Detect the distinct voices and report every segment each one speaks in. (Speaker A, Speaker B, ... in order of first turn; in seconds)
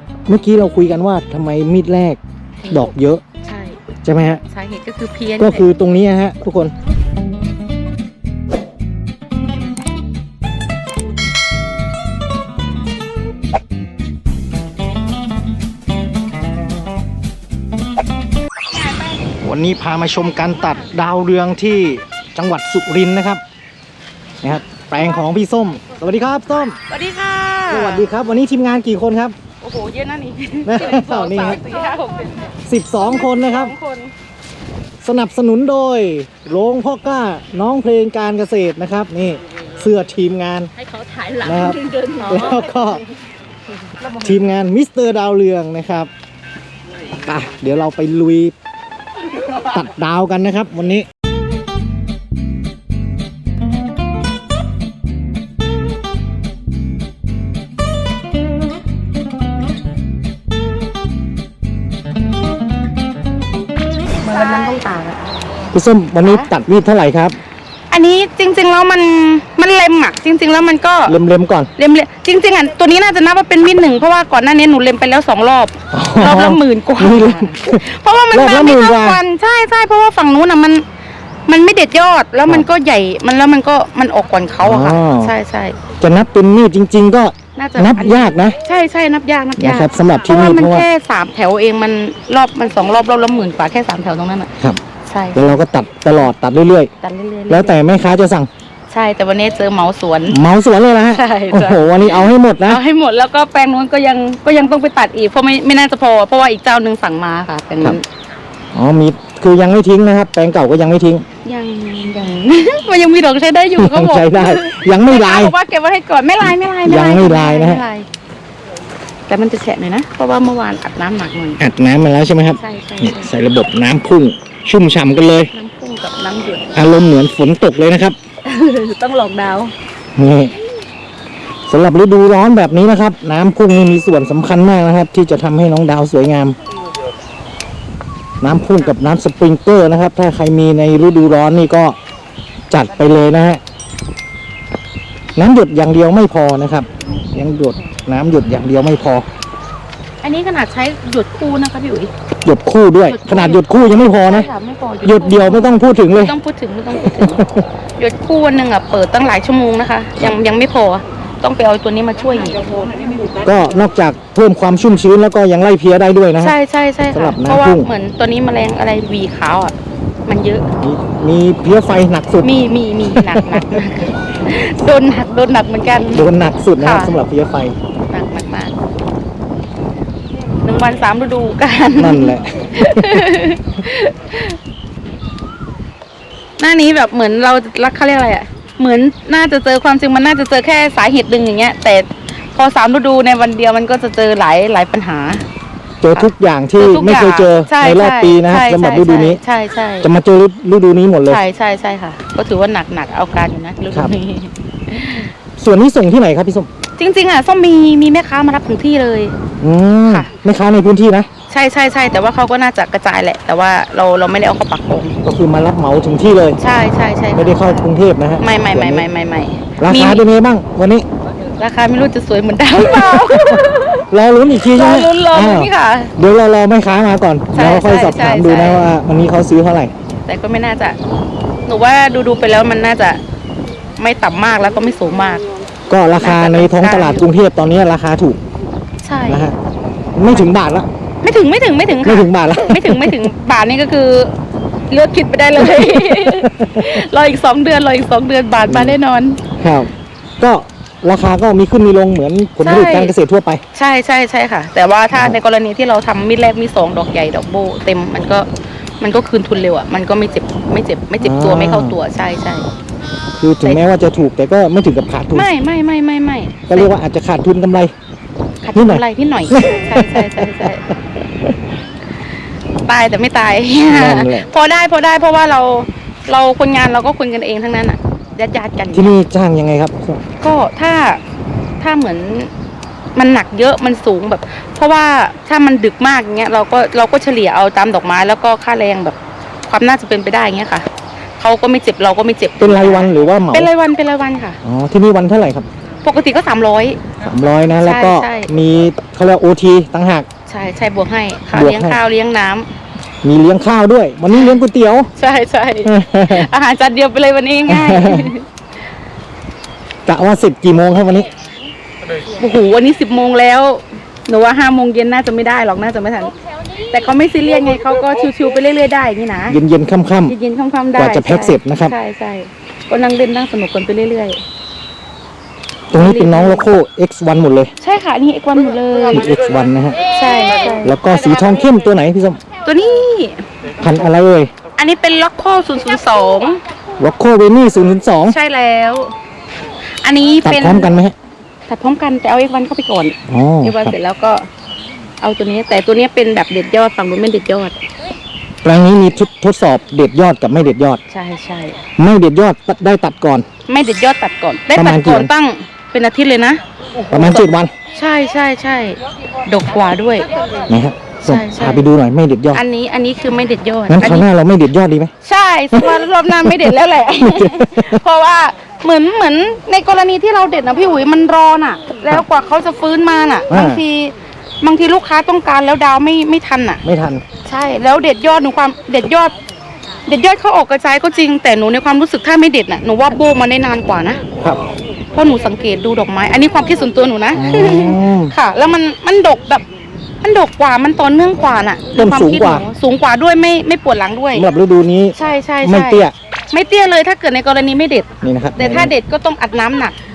Speaker A: 0.3-3.2, 4.0-4.4, 5.4-6.7, 19.4-23.4, 24.4-26.8, 27.7-29.4, 30.7-31.6, 32.7-33.8, 35.0-40.7, 41.4-43.0, 44.2-46.1, 47.2-48.5, 49.7-51.1, 65.7-67.4, 71.1-71.7, 75.9-79.2, 84.6-85.3, 86.0-88.6, 89.6-90.9, 95.3-96.9, 97.5-98.5, 100.3-102.8, 108.7-111.2, 113.8-115.5, 116.4-117.8, 121.6-125.5, 126.8-128.2, 130.2-130.5, 131.7-136.6, 138.4-142.0, 142.7-143.6, 145.4-149.2, 152.4-154.5, 155.0-156.3, 156.9-157.6, 163.4-166.6, 167.1-167.9, 170.8-172.5, 173.1-173.8, 176.1-177.8, 182.0-183.3, 196.0-199.4, 200.0-201.4, 205.6-206.7, 209.6-211.3, 215.2-216.6, 217.3-219.1, 219.8-221.1, 222.9-229.9, 235.9-238.4, 239.3-239.6, 240.2-240.9, 242.0-243.3, 245.8-247.0, 248.7-249.0, 249.6-253.6, 261.2-262.0, 263.4-265.5, 266.7-267.9, 268.8-270.7, 273.9-274.5, 278.9-280.2, 292.6-293.7, 294.6-295.7, 297.2-300.3, 301.5-302.0, 303.2-305.1, 305.9-306.5, 307.7-308.3, 310.1-311.3, 319.5-320.3, 321.0-321.9, 325.9-327.7, 329.1-330.0, 330.8-332.4, 333.8-334.5, 337.0-338.4, 340.4-341.1, 343.3-344.0, 348.6-351.0, 352.0-353.5, 354.7-355.3, 357.1-357.7, 360.7-362.6, 363.9-365.1, 365.7-366.7, 367.2-368.0, 373.5-373.8, 376.8-377.2, 387.4-388.3, 391.9-392.6, 394.4-396.1, 398.2-398.9
Speaker B: 2.6-2.9, 3.4-3.8, 4.4-5.7, 18.7-19.4, 20.1-20.9, 26.9-28.1, 29.6-32.5, 33.0-34.1, 41.0-43.0, 64.2-65.2, 66.2-66.5, 67.9-71.2, 71.8-80.8, 81.5-85.9, 87.6-94.5, 95.0-95.6, 97.0-97.8, 98.9-100.4, 101.1-108.0, 111.5-118.1, 119.3-121.6, 122.5-123.4, 125.5-126.8, 128.4-129.7, 142.9-143.2, 150.2-152.1, 153.1-162.7, 166.4-169.8, 170.3-170.7, 172.4-177.2, 178.1-178.8, 180.6-184.6, 186.6-195.4, 196.1-200.1, 201.3-205.3, 207.0-209.4, 211.5-215.2, 216.6-217.9, 218.4-220.3, 221.6-224.1, 224.6-226.1, 227.5-228.9, 230.3-231.0, 231.7-233.2, 234.0-235.4, 236.2-237.3, 239.0-239.5, 241.2-244.4, 244.9-249.4, 252.6-253.2, 253.7-258.5, 259.0-262.7, 265.3-266.9, 268.6-270.8, 272.9-279.1, 280.4-281.2, 281.8-282.5, 283.1-289.2, 289.7-290.9, 291.4-294.6, 296.0-297.0, 297.8-298.5, 300.5-302.7, 304.3-304.6, 305.2-308.5, 312.4-316.3, 316.9-319.6, 320.3-324.4, 325.9-326.7, 327.8-329.2, 330.0-331.0, 332.6-333.5, 334.8-336.6, 338.3-339.1, 340.0-340.9, 341.7-344.5, 345.2-347.8, 351.1-351.8, 353.7-360.3, 361.2-361.9, 362.5-364.3, 365.2-376.8, 377.4-379.4, 380.1-384.2, 385.1-389.6, 390.2-394.5, 395.1-400.0